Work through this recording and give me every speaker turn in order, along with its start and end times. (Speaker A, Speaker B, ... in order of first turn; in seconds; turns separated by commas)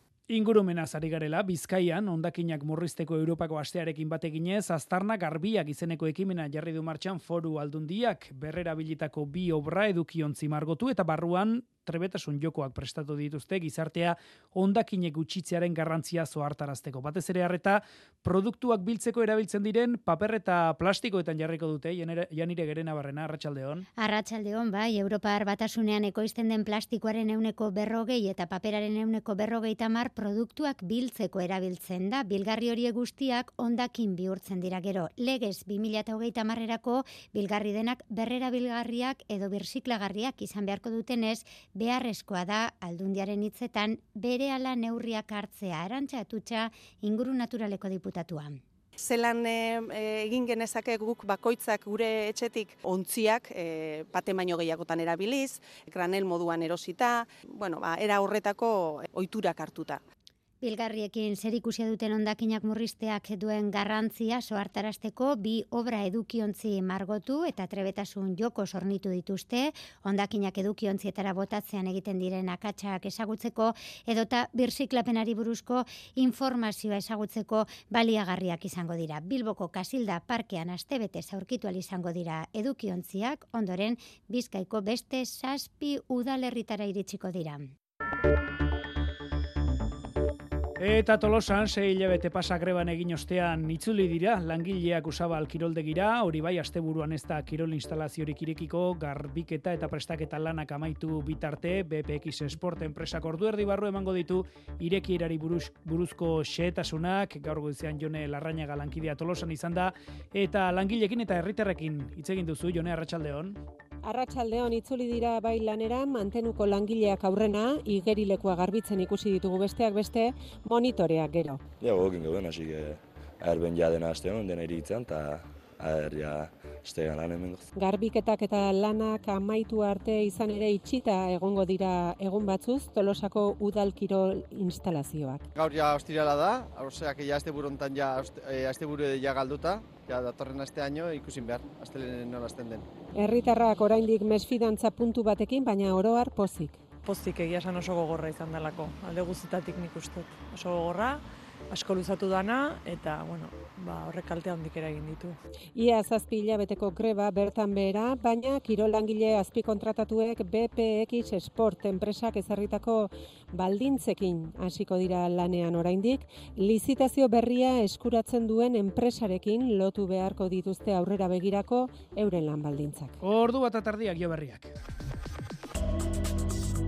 Speaker A: 0.3-23.8, Speaker B: 24.0-48.6, Speaker C: 49.0-60.0, Speaker B: 60.6-87.7, Speaker A: 90.8-113.6, Speaker D: 114.1-121.5, Speaker E: 121.8-127.7, Speaker D: 127.9-135.3, Speaker F: 135.5-142.8, Speaker D: 143.2-146.7, Speaker G: 147.0-155.4, Speaker D: 155.8-157.4, Speaker D: 157.9-160.3, Speaker D: 162.2-163.1, Speaker D: 163.9-168.7, Speaker D: 169.8-173.0, Speaker A: 173.2-174.7